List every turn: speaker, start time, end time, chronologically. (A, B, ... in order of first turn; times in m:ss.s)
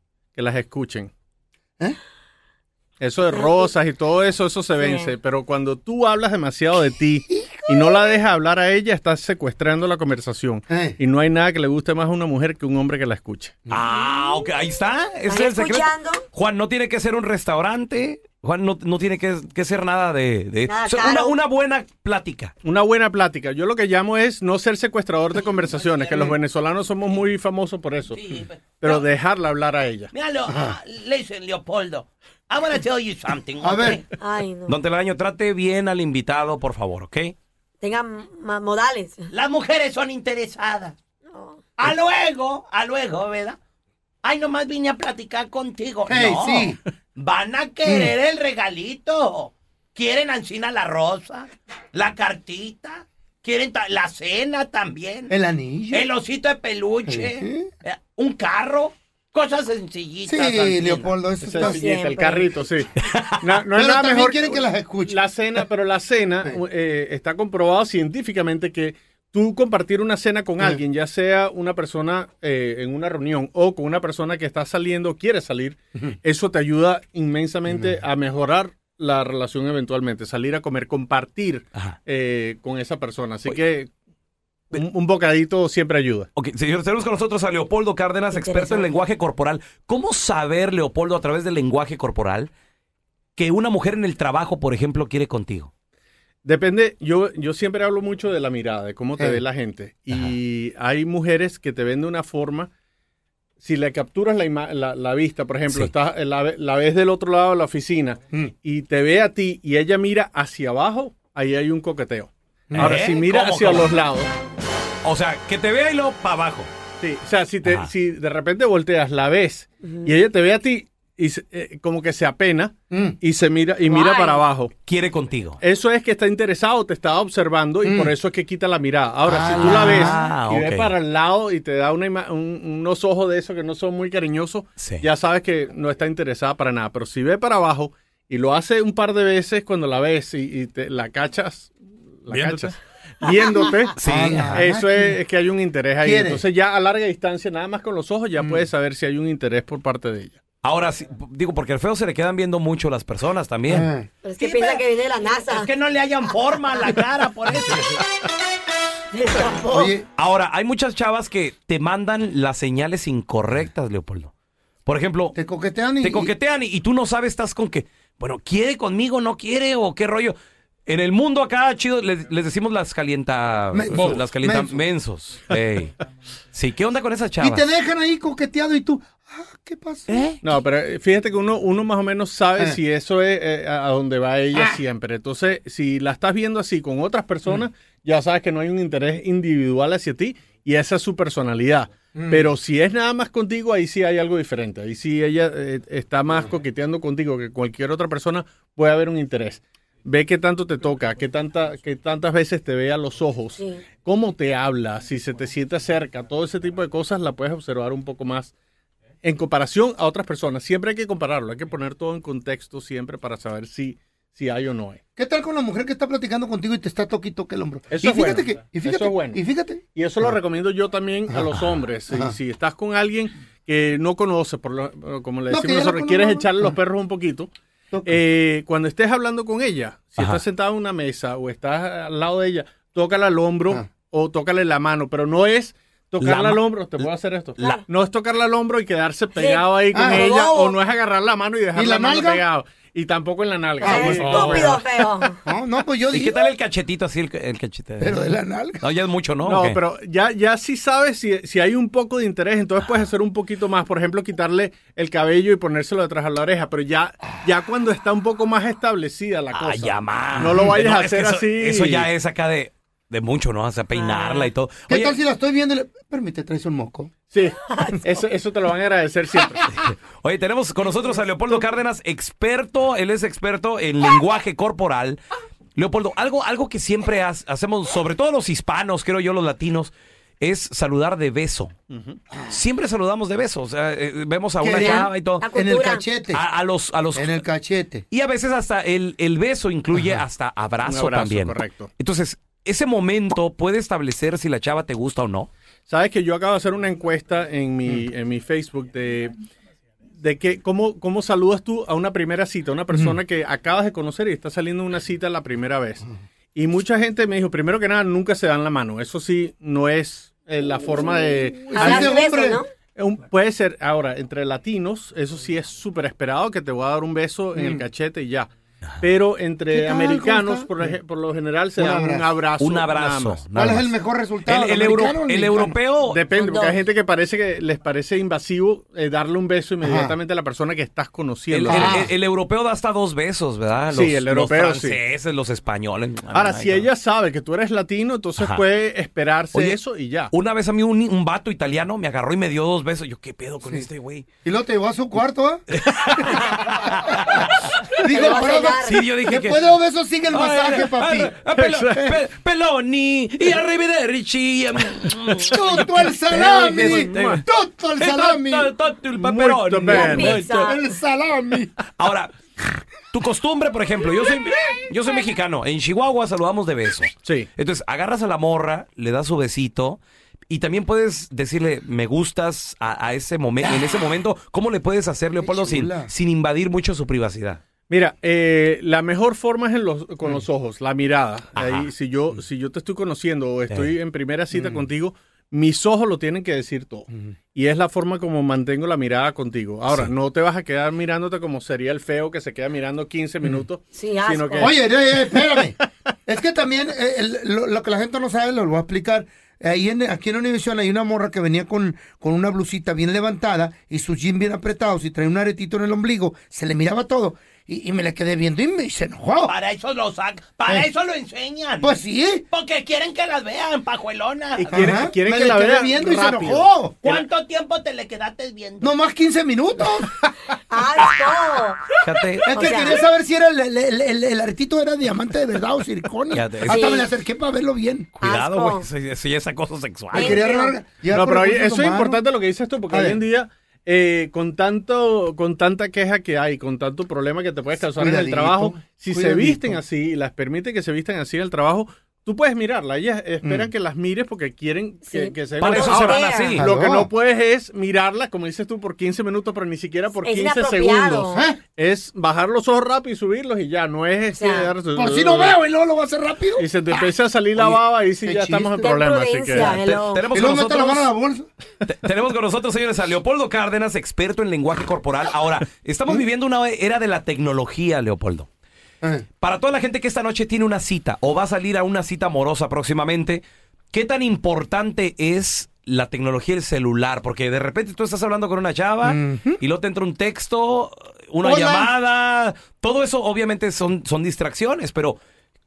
0:00.3-0:01.1 A
0:03.0-0:13.6 A
0:03.3-0:03.7 B
0:04.8-0:05.1 B
0:10.7-0:11.0 C
0:13.7-0:22.5 D
0:15.3-0:16.2 B
0:20.6-0:21.4 B
0:22.6-0:28.2 A
0:25.7-0:26.4 E
0:28.1-0:29.0 E
0:28.8-0:30.1 A
0:30.1-0:34.0 E
0:30.5-0:30.8 C
0:33.6-0:34.0 C
0:34.2-0:34.8 B
0:34.7-0:37.3 D
0:37.8-0:39.3 B
0:39.3-0:40.9 E
0:41.3-0:41.7 B
0:41.8-0:43.6 E
0:44.2-0:55.3 E
0:46.1-0:46.8 C
0:47.8-0:48.1 C
0:55.3-0:56.1 C
0:55.9-1:01.2 E
0:57.0-0:57.7 C
1:00.2-1:01.8 C
1:01.4-1:02.9 A
1:01.5-1:02.5 B
1:03.0-1:03.3 D
1:03.4-1:23.9 A
1:03.8-1:05.2 C
1:17.7-1:18.0 C
1:24.7-1:26.3 A
1:26.3-1:32.5 D
1:28.3-1:28.9 B
1:33.4-1:35.7 D
1:36.4-1:42.7 A
1:43.6-1:54.3 A
1:52.7-1:53.0 C
1:52.7-1:53.9 D
1:55.0-1:56.7 D
1:57.0-2:04.7 A
1:59.9-2:00.1 B
2:02.9-2:03.2 C
2:03.8-2:04.4 B
2:04.8-2:05.6 D
2:05.6-2:30.4 A
2:07.8-2:08.1 C
2:09.3-2:10.3 C
2:09.4-2:10.9 D
2:22.3-2:22.7 D
2:24.0-2:24.6 D
2:24.0-2:25.2 C
2:26.0-2:26.4 C
2:28.4-2:28.6 C
2:30.6-2:33.9 D
2:33.7-2:34.1 C
2:34.2-2:35.7 B
2:34.4-2:34.8 E
2:35.5-2:36.0 E
2:36.0-2:37.9 D
2:36.8-2:37.5 E
2:39.1-2:39.9 B
2:39.7-2:40.0 C
2:40.2-2:44.3 D
2:44.8-2:45.4 D
2:45.3-2:46.3 C
2:46.0-2:50.4 D
2:50.9-2:56.0 D
2:53.7-2:54.8 C
2:56.5-2:57.7 D
2:57.4-3:00.3 C
3:00.1-3:00.4 D
3:00.4-3:28.5 A
3:12.1-3:12.5 C
3:23.6-3:23.9 B
3:29.2-3:35.0 A
3:35.2-3:40.3 C
3:37.9-3:39.4 A
3:39.9-3:47.5 A
3:42.1-3:42.4 C
3:45.5-3:46.7 C
3:47.9-3:48.2 C
3:48.0-4:04.8 A
3:56.2-3:57.1 D
3:57.6-3:57.8 B
3:59.3-4:00.7 B
3:59.9-4:00.4 C
4:01.7-4:02.4 C
4:03.8-4:04.6 C
4:03.8-4:05.4 B
4:05.4-4:06.5 C
4:06.1-4:09.8 D
4:08.0-4:08.8 C
4:09.4-4:22.1 A
4:19.5-4:25.2 D
4:23.9-4:24.5 B
4:24.9-4:27.1 C
4:27.3-4:29.6 A
4:27.7-4:28.0 B
4:29.6-4:35.2 D
4:35.8-4:41.7 D
4:41.9-4:42.2 A
4:42.3-4:42.6 C
4:42.5-4:45.4 D
4:44.6-4:46.4 C
4:44.8-4:46.0 B
4:46.3-4:47.4 D
4:47.1-4:48.0 C
4:48.1-4:55.5 D
4:50.8-4:51.9 A
4:55.9-4:59.4 A
5:00.2-5:12.2 A
5:11.7-5:12.7 B
5:11.8-5:12.6 C
5:12.9-5:18.5 A
5:17.6-5:17.8 C
5:19.0-5:23.5 A
5:19.7-5:20.9 C
5:21.8-5:22.3 C
5:22.6-5:26.2 D
5:23.5-5:25.8 C
5:26.0-5:32.0 A
5:26.3-5:26.8 B
5:29.8-5:30.1 C
5:31.5-5:36.8 D
5:31.7-5:32.1 C
5:33.9-5:35.0 A
5:36.3-5:40.3 A
5:40.3-5:44.2 D
5:44.4-5:45.6 C
5:45.7-5:49.7 D
5:46.9-5:47.4 C
5:48.0-5:52.2 C
5:48.0-5:49.0 B
5:50.3-5:57.4 D
5:51.6-5:51.9 A
5:55.4-5:58.7 C
5:56.3-5:57.4 A
5:58.0-6:00.8 D
5:59.1-6:00.4 A
5:59.9-6:00.9 B
6:00.2-6:01.7 C
6:01.9-6:02.3 D
6:03.1-6:17.6 D
6:07.2-6:07.5 A
6:13.6-6:13.9 C
6:15.4-6:16.1 C
6:17.9-6:35.6 A
6:21.5-6:21.9 D
6:33.9-6:34.7 B
6:34.6-6:49.5 C
6:49.4-6:51.9 E
6:50.6-6:50.9 C
6:51.8-6:52.4 C
6:52.5-6:54.8 E
6:54.5-6:57.3 A
6:54.7-6:57.0 C
6:57.0-6:58.9 E
6:58.8-7:00.1 C
7:00.5-7:01.9 B
7:02.0-7:02.6 D
7:02.4-7:08.1 C
7:02.5-7:03.0 B
7:06.3-7:07.1 D
7:06.6-7:07.1 B
7:08.2-7:10.5 D
7:08.2-7:08.8 B
7:10.1-7:12.2 C
7:10.1-7:10.8 B
7:11.0-7:35.6 A
7:12.9-7:13.2 C
7:17.9-7:19.8 C
7:23.4-7:23.7 C
7:25.0-7:26.6 B
7:25.6-7:26.6 D
7:26.6-7:27.1 C
7:30.1-7:31.4 B
7:31.3-7:31.6 C
7:34.3-7:34.8 B
7:34.9-7:37.1 C
7:36.6-7:39.8 A
7:38.2-7:38.9 C
7:38.8-7:40.3 B
7:39.6-7:41.1 D
7:40.3-7:41.5 C
7:41.8-7:48.5 D
7:49.4-8:05.2 D
7:59.0-7:59.6 C
8:01.4-8:01.9 C